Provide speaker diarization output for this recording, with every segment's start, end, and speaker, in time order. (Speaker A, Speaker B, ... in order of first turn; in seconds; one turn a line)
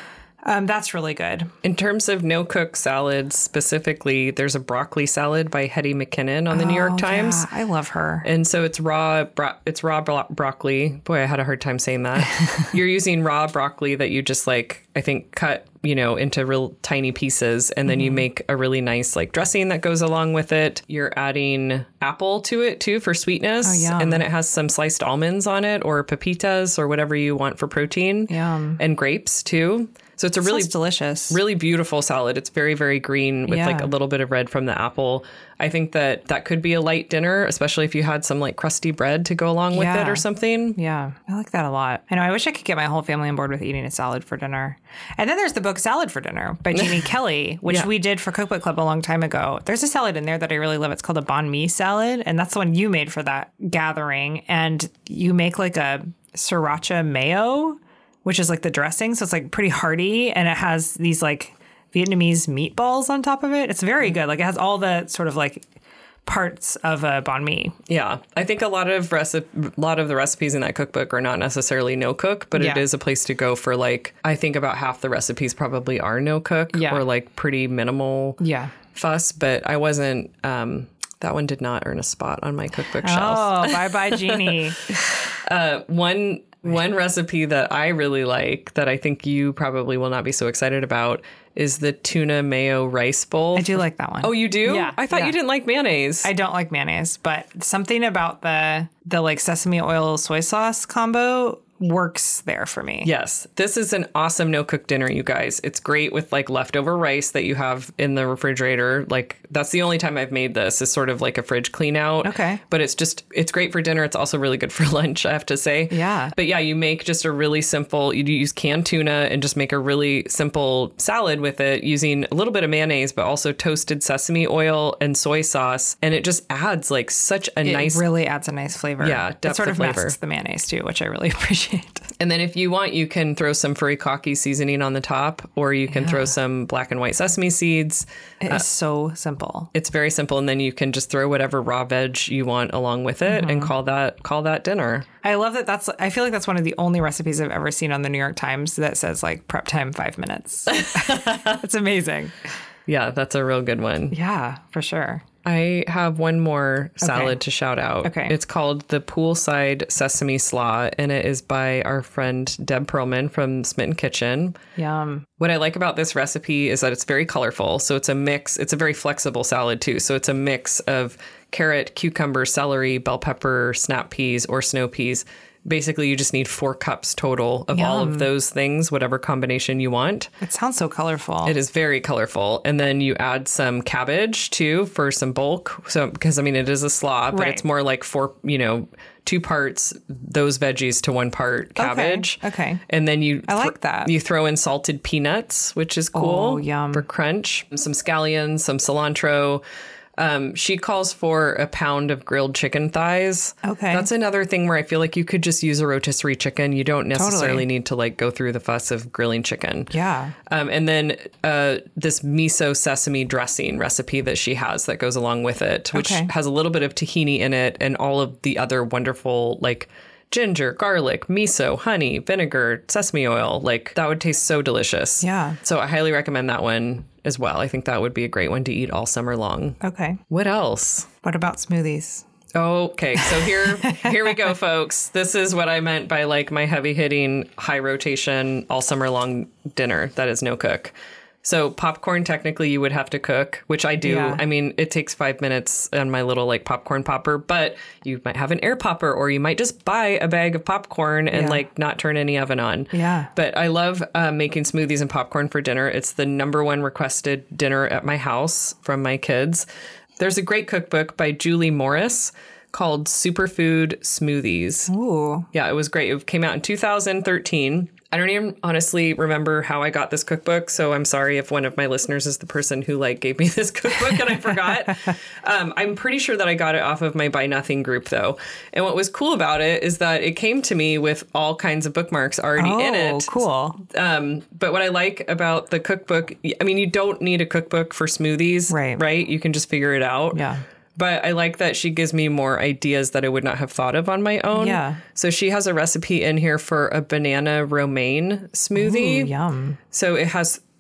Speaker A: 0.4-1.5
Speaker B: 1.6-7.5
Speaker A: 6.5-8.3
Speaker B: 8.2-30.7
Speaker A: 17.9-18.2
Speaker A: 23.6-24.2
Speaker A: 28.3-28.8
Speaker A: 30.4-31.4
Speaker B: 31.3-40.8
Speaker A: 33.5-33.9
Speaker A: 39.7-65.7
Speaker B: 46.8-47.0
Speaker A: 66.3-67.8
Speaker B: 67.9-78.4
Speaker A: 72.6-72.8
Speaker A: 76.7-77.0
Speaker A: 78.4-78.7
Speaker B: 78.9-96.3
Speaker A: 83.0-84.9
Speaker A: 93.5-95.4
Speaker A: 96.2-103.1
Speaker B: 103.0-128.0
Speaker A: 112.2-112.6
Speaker A: 115.9-116.3
Speaker A: 127.7-132.1
Speaker B: 129.0-130.2
Speaker B: 132.2-138.6
Speaker A: 135.9-136.3
Speaker A: 138.4-139.7
Speaker B: 139.7-145.1
Speaker A: 143.3-143.7
Speaker A: 145.2-152.3
Speaker B: 150.7-151.6
Speaker B: 152.9-154.2
Speaker A: 154.1-155.2
Speaker B: 155.4-164.6
Speaker A: 157.0-157.4
Speaker A: 158.0-158.3
Speaker A: 164.8-165.3
Speaker B: 165.4-180.3
Speaker A: 177.7-178.3
Speaker A: 180.4-181.6
Speaker B: 181.4-199.6
Speaker A: 187.3-187.6
Speaker A: 191.8-192.8
Speaker A: 193.5-194.1
Speaker A: 196.1-197.1
Speaker B: 200.2-209.9
Speaker A: 203.6-204.1
Speaker A: 207.2-207.7
Speaker A: 209.9-210.3
Speaker B: 210.5-229.8
Speaker A: 215.9-216.3
Speaker A: 225.2-225.6
Speaker A: 229.8-230.2
Speaker B: 230.3-231.1
Speaker A: 231.2-232.2
Speaker B: 232.6-259.6
Speaker A: 233.2-234.2
Speaker A: 244.0-244.4
Speaker A: 251.3-251.6
Speaker A: 252.9-253.3
Speaker B: 260.2-264.9
Speaker A: 264.9-265.5
Speaker B: 265.5-290.4
Speaker A: 274.9-275.1
Speaker A: 282.6-283.8
Speaker A: 288.7-289.0
Speaker A: 290.3-290.6
Speaker B: 290.9-299.3
Speaker A: 294.5-295.0
Speaker A: 298.8-299.8
Speaker B: 299.9-300.6